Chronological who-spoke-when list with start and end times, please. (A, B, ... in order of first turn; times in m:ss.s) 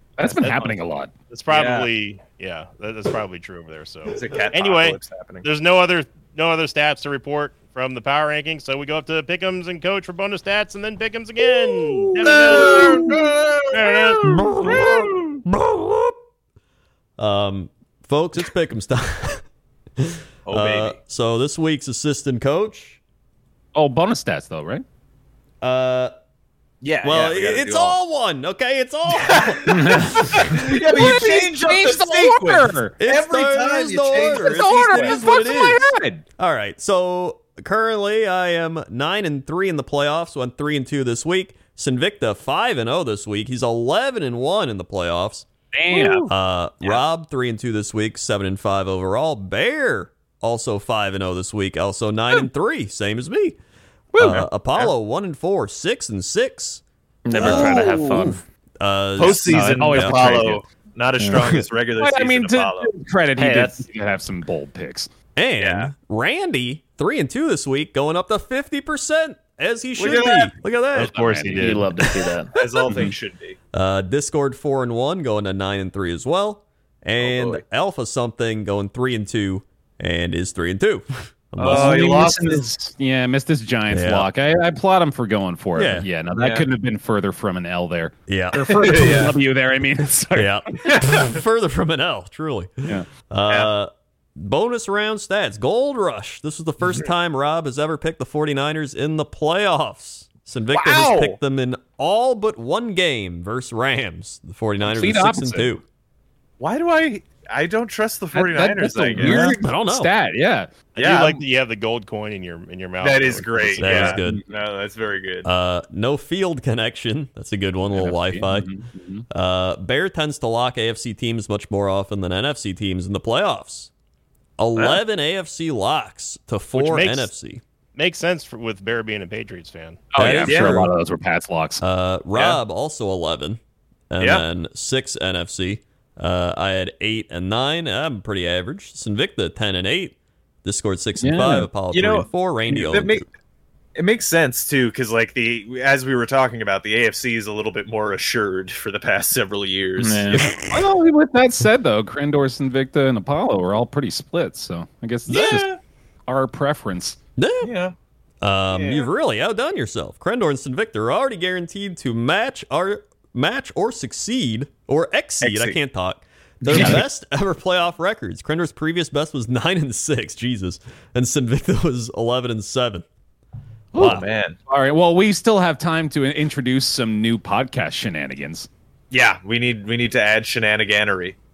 0:00.2-0:01.1 A
0:00.3-0:00.8 B
0:01.3-0:13.2 B
0:01.5-0:01.9 C
0:04.1-0:05.4 C
0:11.5-0:13.2 D
0:12.2-0:15.4 C
0:13.7-0:14.2 B
0:14.2-0:16.2 D
0:17.2-0:19.4 D
0:20.0-0:23.0 D
0:20.5-0:21.0 C
0:23.7-0:24.8 A
0:25.6-0:26.1 D
0:26.8-0:28.0 C
0:27.0-0:30.5 D
0:29.2-0:35.2 C
0:30.3-0:33.0 A
0:33.0-0:45.5 D
0:34.2-0:36.2 A
0:45.7-0:46.3 A
0:45.9-0:46.2 C
0:46.2-0:53.6 D
0:54.1-0:54.5 A
0:54.2-0:56.8 D
0:54.3-0:54.9 C
0:57.2-0:58.4 E
0:57.3-0:58.0 C
0:57.3-1:00.4 D
0:59.2-1:02.9 C
0:59.2-1:00.6 A
1:01.4-1:01.6 D
1:02.0-1:05.1 A
1:03.4-1:03.9 E
1:05.4-1:11.2 D
1:05.6-1:05.9 C
1:10.0-1:10.5 C
1:10.9-1:12.0 B
1:11.0-1:11.9 A
1:11.6-1:12.5 E
1:12.5-1:13.6 C
1:12.8-1:13.1 A
1:13.7-1:22.0 D
1:17.2-1:17.6 C
1:21.6-1:31.1 A
1:21.6-1:22.7 C
1:23.9-1:24.3 D
1:25.8-1:26.1 D
1:26.4-1:26.7 C
1:28.3-1:29.2 D
1:28.7-1:29.3 C
1:30.3-1:45.8 D
1:30.9-1:31.2 C
1:40.7-1:41.4 C
1:44.8-1:45.7 A
1:46.6-1:49.6 C
1:48.3-1:50.7 A
1:49.2-1:50.1 D
1:50.9-1:54.1 B
1:51.0-1:51.4 C
1:53.0-1:55.5 C
1:53.7-1:54.4 D
1:53.9-1:54.5 A
1:55.4-1:58.7 D
1:57.9-1:59.2 A
1:59.3-2:03.9 D
2:04.6-2:07.6 D
2:06.7-2:07.3 B
2:07.9-2:10.1 B
2:10.1-2:11.8 A
2:10.2-2:10.9 D
2:10.4-2:10.9 C
2:11.8-2:23.2 D
2:12.3-2:12.6 C
2:21.2-2:21.7 A
2:21.9-2:23.3 C
2:24.0-2:30.7 C
2:30.0-2:30.5 E
2:30.5-2:35.7 A
2:35.3-2:35.8 C
2:36.3-2:37.2 A
2:37.4-2:37.7 D
2:37.6-2:37.9 C
2:38.4-2:53.0 D
2:38.7-2:39.1 C
2:45.4-2:45.8 C
2:46.6-2:47.0 A
2:46.6-2:47.0 C
2:53.9-2:54.2 D
2:54.0-2:54.6 C
2:54.0-2:58.7 A
2:59.1-3:01.4 C